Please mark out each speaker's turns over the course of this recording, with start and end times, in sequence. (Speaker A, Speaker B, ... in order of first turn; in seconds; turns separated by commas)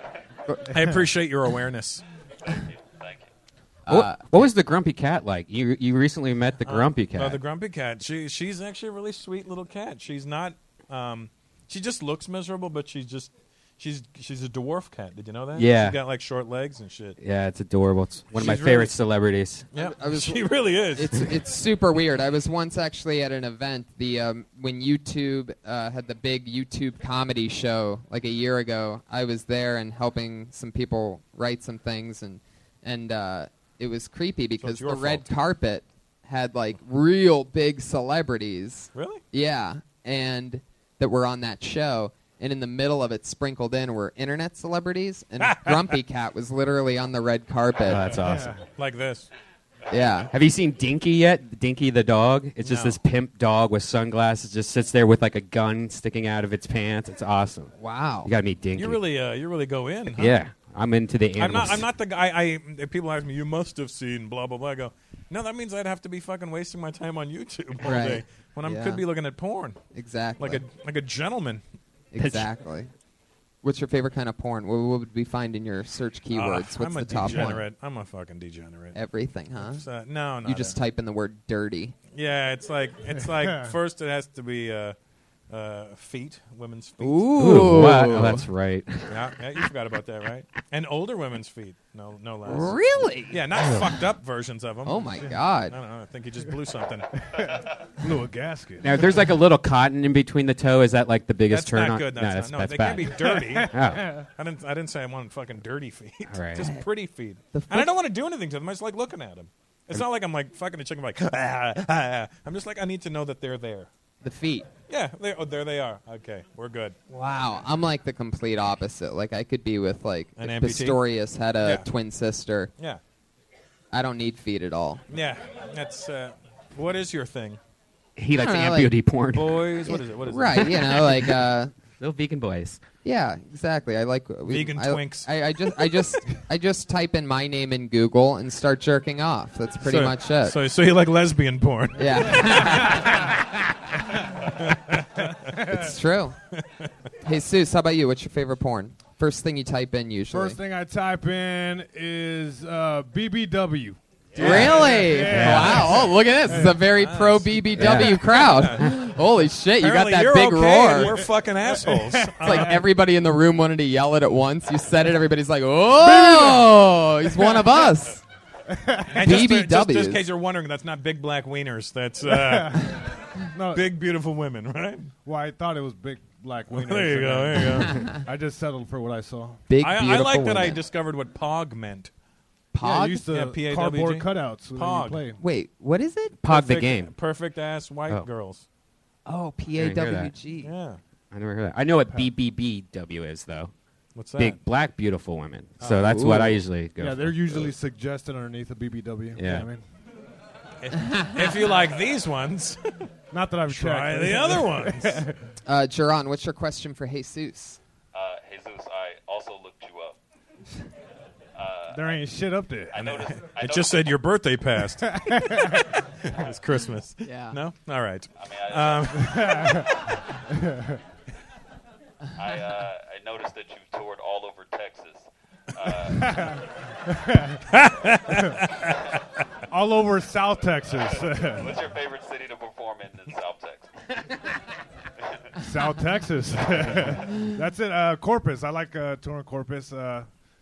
Speaker A: 0.7-2.0, Speaker B: 2.5-3.3, Speaker C: 3.9-4.2, Speaker D: 3.9-7.4, Speaker A: 6.6-17.2, Speaker D: 15.6-16.0, Speaker D: 17.2-19.6, Speaker A: 18.3-19.0, Speaker A: 19.7-21.3, Speaker C: 19.8-48.1, Speaker A: 34.6-35.2, Speaker A: 38.9-39.2, Speaker A: 45.4-45.8, Speaker D: 47.9-48.5, Speaker E: 48.2-48.6, Speaker A: 48.7-49.3, Speaker C: 49.9-50.3, Speaker D: 50.3-59.0, Speaker A: 52.6-53.0, Speaker C: 57.8-58.3, Speaker A: 58.7-60.4, Speaker D: 60.1-61.9, Speaker A: 61.4-69.8, Speaker C: 67.8-69.0, Speaker C: 69.9-70.6, Speaker A: 70.4-71.6, Speaker C: 72.1-72.9, Speaker D: 72.2-72.5, Speaker C: 73.6-77.7, Speaker A: 76.3-79.0, Speaker C: 78.9-79.8, Speaker A: 79.6-80.8, Speaker C: 80.4-82.0, Speaker A: 82.1-85.0, Speaker E: 83.3-83.7, Speaker A: 85.5-87.5, Speaker C: 87.0-88.5, Speaker D: 87.3-89.1, Speaker A: 89.1-92.8, Speaker C: 92.4-93.9, Speaker A: 93.3-95.1, Speaker C: 94.8-95.7, Speaker A: 95.7-97.1, Speaker E: 97.3-99.0, Speaker D: 98.8-104.1, Speaker A: 101.5-103.8, Speaker E: 103.2-104.3, Speaker A: 104.3-113.9, Speaker D: 106.3-106.7, Speaker C: 107.5-107.9, Speaker C: 114.2-114.7, Speaker A: 114.9-117.0, Speaker C: 117.1-122.7, Speaker A: 120.4-121.0, Speaker A: 121.6-121.9, Speaker C: 123.9-125.0, Speaker A: 125.1-127.6, Speaker D: 128.2-129.7, Speaker C: 128.4-128.9, Speaker A: 129.3-131.0, Speaker C: 129.9-131.7, Speaker D: 132.0-132.8, Speaker C: 133.0-140.6, Speaker A: 134.5-135.3, Speaker A: 139.8-143.0, Speaker C: 142.0-143.3, Speaker A: 144.6-145.3, Speaker C: 145.7-146.4, Speaker C: 147.2-150.6, Speaker E: 150.3-156.8, Speaker A: 154.4-156.0, Speaker C: 154.4-161.2, Speaker D: 154.4-155.9, Speaker A: 156.8-159.0, Speaker D: 157.8-158.4, Speaker A: 159.8-162.8, Speaker E: 161.0-162.8, Speaker C: 162.4-168.2, Speaker E: 166.0-167.8, Speaker E: 168.7-169.2, Speaker A: 169.1-173.1, Speaker C: 169.2-170.2, Speaker E: 172.2-173.0, Speaker E: 173.5-173.9, Speaker A: 173.7-175.1, Speaker E: 175.2-179.6, Speaker A: 176.7-178.1, Speaker C: 179.7-180.8, Speaker A: 179.8-182.1, Speaker C: 182.7-183.2, Speaker E: 182.8-185.4, Speaker A: 183.3-185.3, Speaker C: 185.4-186.4, Speaker D: 186.4-187.1, Speaker A: 186.4-188.6, Speaker C: 189.2-190.7, Speaker D: 189.8-190.3, Speaker A: 190.6-191.0, Speaker D: 191.3-193.7, Speaker A: 194.1-194.6, Speaker D: 194.4-197.7, Speaker A: 195.8-196.5, Speaker C: 196.1-196.5, Speaker E: 197.0-199.8, Speaker D: 199.3-199.7, Speaker A: 200.8-202.8, Speaker C: 201.1-201.5, Speaker E: 203.3-205.3, Speaker A: 203.7-205.2, Speaker C: 205.7-207.8, Speaker B: 208.1-210.2, Speaker B: 211.5-212.2, Speaker E: 211.9-212.9, Speaker B: 212.9-214.1, Speaker A: 212.9-219.5, Speaker E: 215.0-215.8, Speaker C: 217.2-217.6, Speaker B: 218.4-219.8, Speaker E: 219.2-219.9, Speaker E: 220.5-221.0, Speaker B: 222.3-226.6, Speaker E: 226.2-227.6, Speaker A: 227.7-229.0, Speaker E: 229.7-231.8, Speaker B: 231.0-233.9, Speaker E: 235.6-240.3